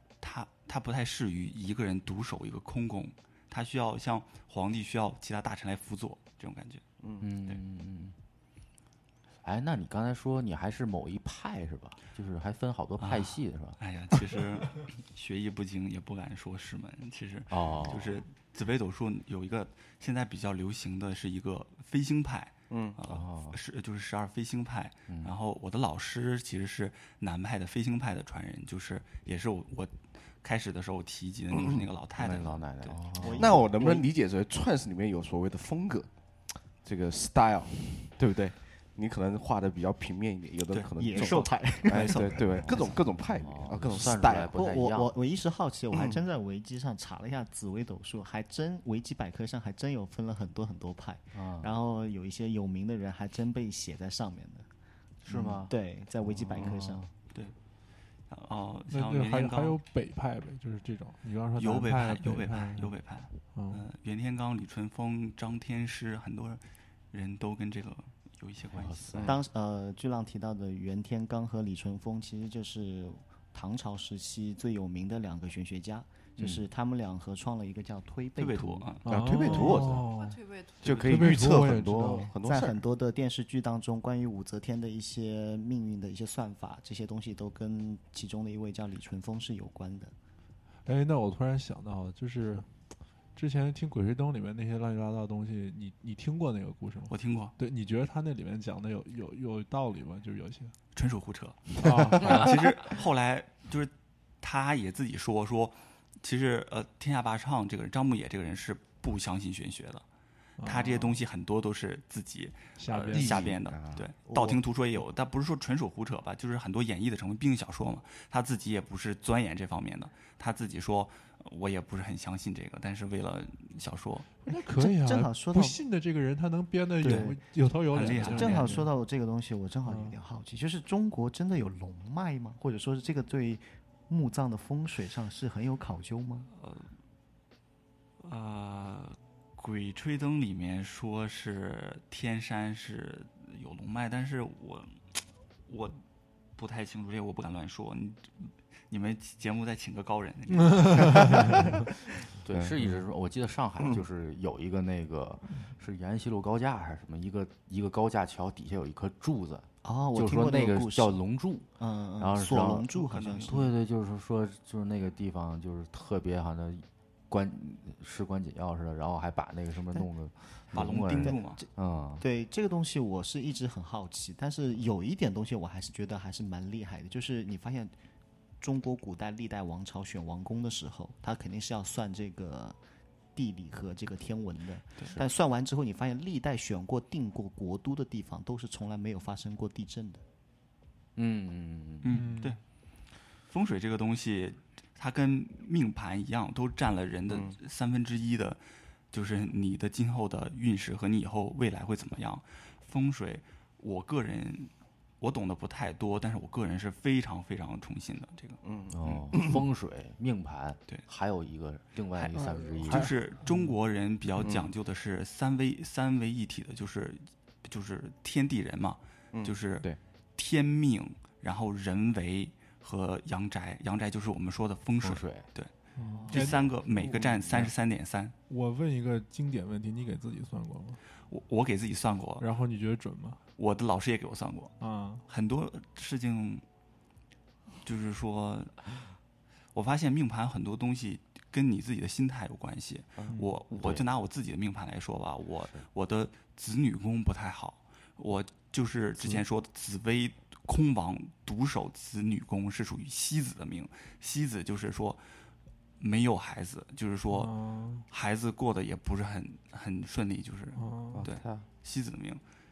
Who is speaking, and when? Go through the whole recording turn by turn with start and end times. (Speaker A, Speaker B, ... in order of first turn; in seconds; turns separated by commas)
Speaker A: 0.2-6.8, Speaker B: 7.2-8.2, Speaker B: 9.4-13.8, Speaker A: 13.0-33.0, Speaker B: 17.5-18.2, Speaker C: 22.7-23.0, Speaker B: 23.1-23.6, Speaker C: 31.5-31.9, Speaker B: 32.2-33.6, Speaker D: 33.2-34.1, Speaker C: 33.4-36.1, Speaker C: 36.8-44.5, Speaker A: 40.7-43.0, Speaker D: 41.0-42.3, Speaker B: 42.5-45.1, Speaker D: 44.5-54.7, Speaker C: 45.9-46.2, Speaker B: 51.3-51.7, Speaker B: 55.2-55.8, Speaker D: 55.3-57.1, Speaker B: 56.4-57.1, Speaker A: 58.3-59.8, Speaker E: 58.9-62.9, Speaker A: 61.6-69.3, Speaker E: 63.5-63.9, Speaker B: 68.7-69.4, Speaker D: 69.2-79.0, Speaker B: 76.4-76.6, Speaker A: 78.4-79.1, Speaker E: 79.0-80.4, Speaker C: 79.1-80.1, Speaker F: 79.5-81.6, Speaker C: 80.8-82.8, Speaker A: 80.8-81.1, Speaker E: 80.9-82.3, Speaker D: 82.4-90.1, Speaker E: 90.8-92.7, Speaker E: 93.3-100.7, Speaker A: 97.1-97.5, Speaker A: 100.9-110.0, Speaker E: 101.8-102.7, Speaker E: 110.6-111.2, Speaker A: 110.6-124.3, Speaker E: 112.8-113.5, Speaker C: 113.1-114.1, Speaker E: 124.4-128.9, Speaker D: 124.5-125.8, Speaker A: 127.0-127.3, Speaker D: 127.0-127.4, Speaker A: 127.9-128.8, Speaker D: 128.0-136.5, Speaker E: 129.8-130.2, Speaker A: 136.6-136.9, Speaker A: 138.2-146.0, Speaker A: 146.6-151.8, Speaker E: 150.6-151.7, Speaker B: 152.4-162.9, Speaker D: 159.8-161.2, Speaker D: 161.8-163.7, Speaker A: 162.9-163.6, Speaker B: 163.4-172.2, Speaker A: 170.7-171.6, Speaker D: 171.2-171.7, Speaker D: 172.2-177.9, Speaker D: 178.6-182.8, Speaker D: 183.3-190.2, Speaker B: 191.2-192.2, Speaker A: 192.0-192.6, Speaker E: 192.1-192.6, Speaker A: 193.5-198.6, Speaker C: 197.3-197.6, Speaker A: 199.1-209.2, Speaker C: 208.6-209.6, Speaker B: 208.9-213.1, Speaker A: 212.2-225.7, Speaker C: 214.4-214.7, Speaker B: 225.0-225.5, Speaker E: 226.0-227.2, Speaker D: 226.1-226.5, Speaker A: 226.3-228.3, Speaker E: 228.5-231.0, Speaker A: 231.3-232.4, Speaker E: 232.4-233.4, Speaker A: 233.6-236.6, Speaker E: 234.8-235.2, Speaker A: 237.8-238.9, Speaker A: 239.7-255.2, Speaker A: 256.0-257.5, Speaker E: 257.3-258.0, Speaker A: 258.1-262.4, Speaker E: 260.8-261.3, Speaker C: 261.1-261.6